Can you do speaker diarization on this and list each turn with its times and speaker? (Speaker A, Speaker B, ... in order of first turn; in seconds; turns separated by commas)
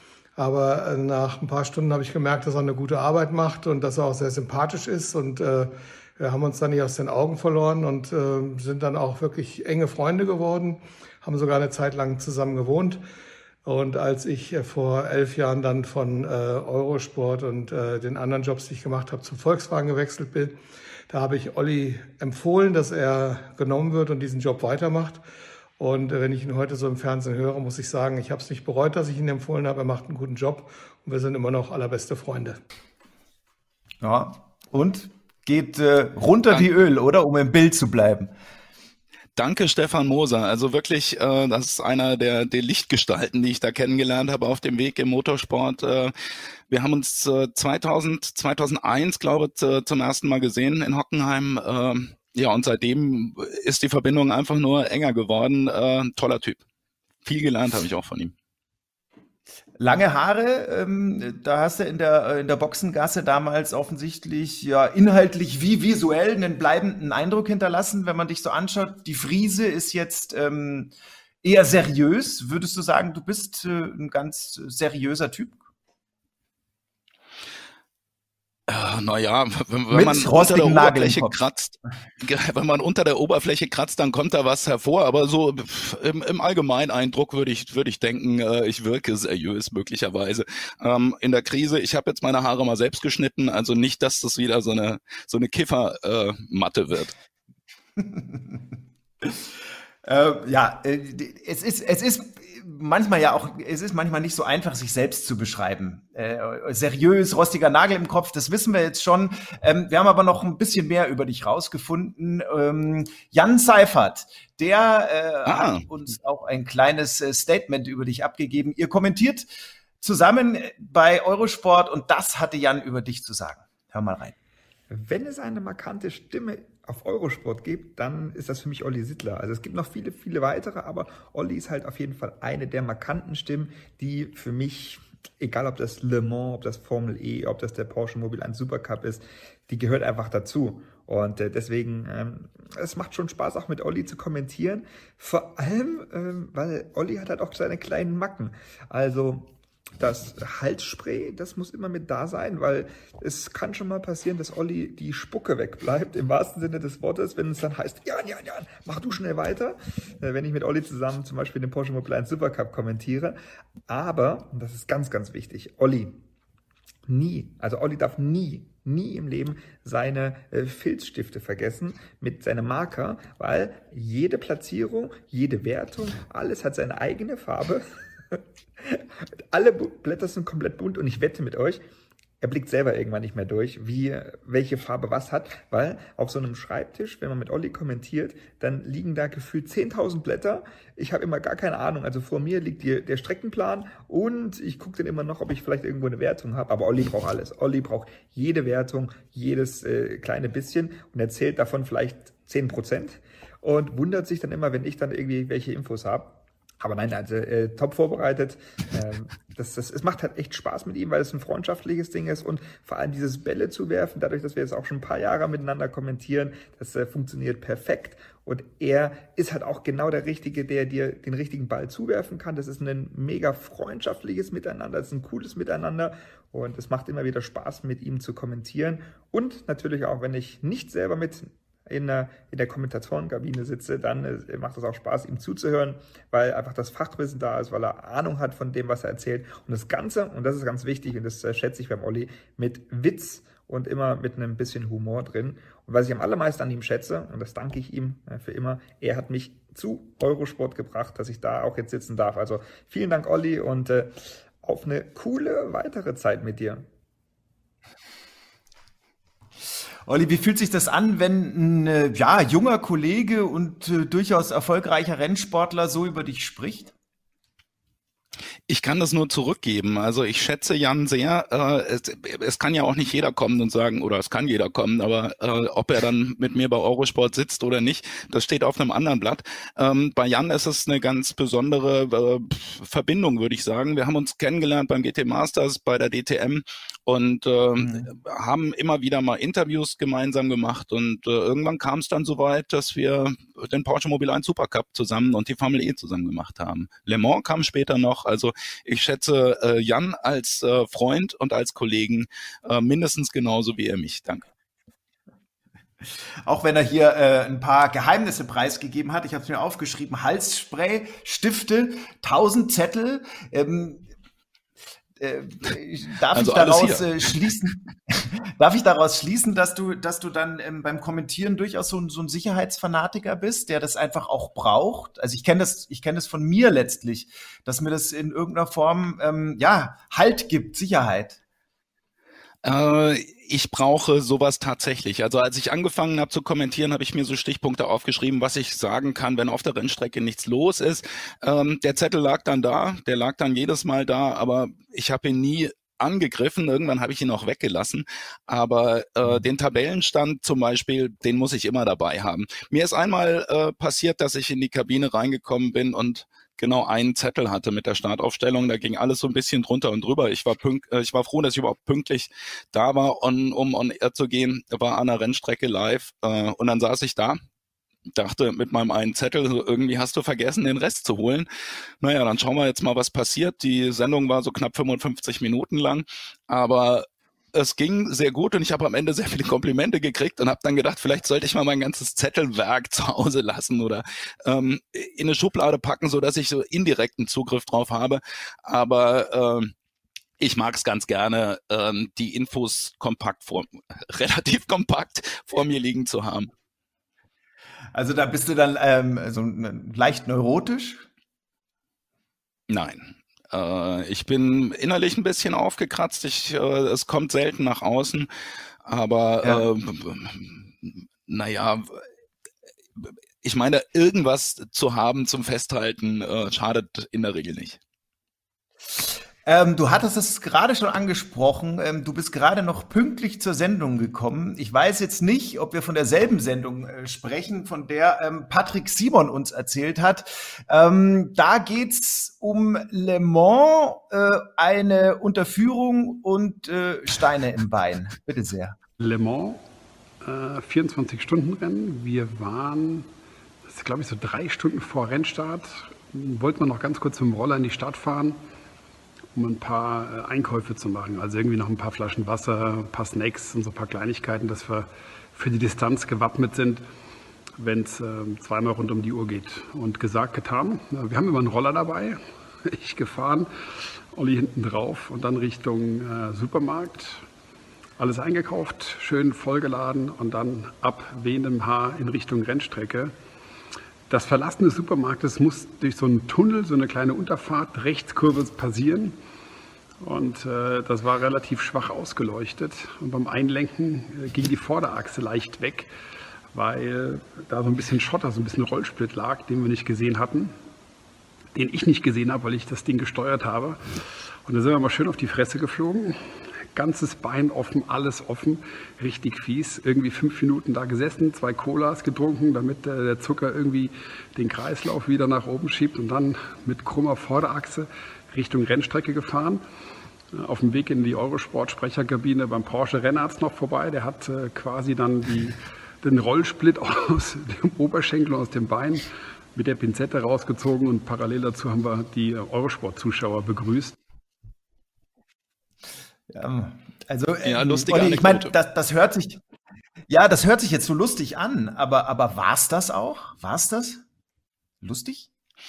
Speaker A: 0.4-13.0, Speaker A: 13.6-20.6, Speaker A: 21.1-25.2, Speaker A: 25.8-32.6, Speaker B: 34.0-38.3, Speaker C: 39.4-46.1, Speaker C: 46.7-56.6, Speaker C: 57.2-58.3, Speaker B: 59.8-70.9, Speaker B: 71.4-75.6, Speaker C: 78.7-97.1, Speaker B: 79.9-81.4, Speaker B: 98.0-99.4, Speaker B: 100.0-119.5, Speaker C: 115.5-115.8, Speaker B: 120.0-124.3, Speaker D: 124.9-163.4, Speaker D: 163.9-166.2, Speaker D: 167.1-181.8, Speaker D: 182.4-256.9, Speaker B: 260.1-266.9, Speaker C: 268.7-304.4, Speaker B: 287.8-288.1, Speaker B: 306.4-314.1, Speaker B: 315.2-331.4, Speaker C: 316.3-317.3, Speaker C: 332.6-367.4, Speaker C: 368.1-371.5, Speaker C: 372.0-389.7, Speaker C: 390.4-396.5, Speaker B: 397.9-401.0, Speaker C: 402.7-408.3, Speaker C: 408.8-412.0, Speaker C: 413.0-417.8, Speaker B: 419.0-438.8, Speaker E: 439.0-439.6, Speaker E: 440.2-443.1, Speaker E: 443.7-448.4, Speaker E: 449.3-456.8, Speaker E: 457.6-463.5, Speaker E: 464.1-467.2, Speaker E: 468.0-473.1, Speaker E: 474.1-479.1, Speaker E: 480.0-485.9, Speaker E: 486.5-490.5, Speaker E: 491.5-493.8, Speaker E: 494.4-496.2, Speaker E: 496.7-509.6, Speaker E: 510.3-524.0, Speaker B: 526.3-529.4, Speaker C: 527.4-528.5, Speaker B: 530.1-534.0, Speaker B: 534.8-535.3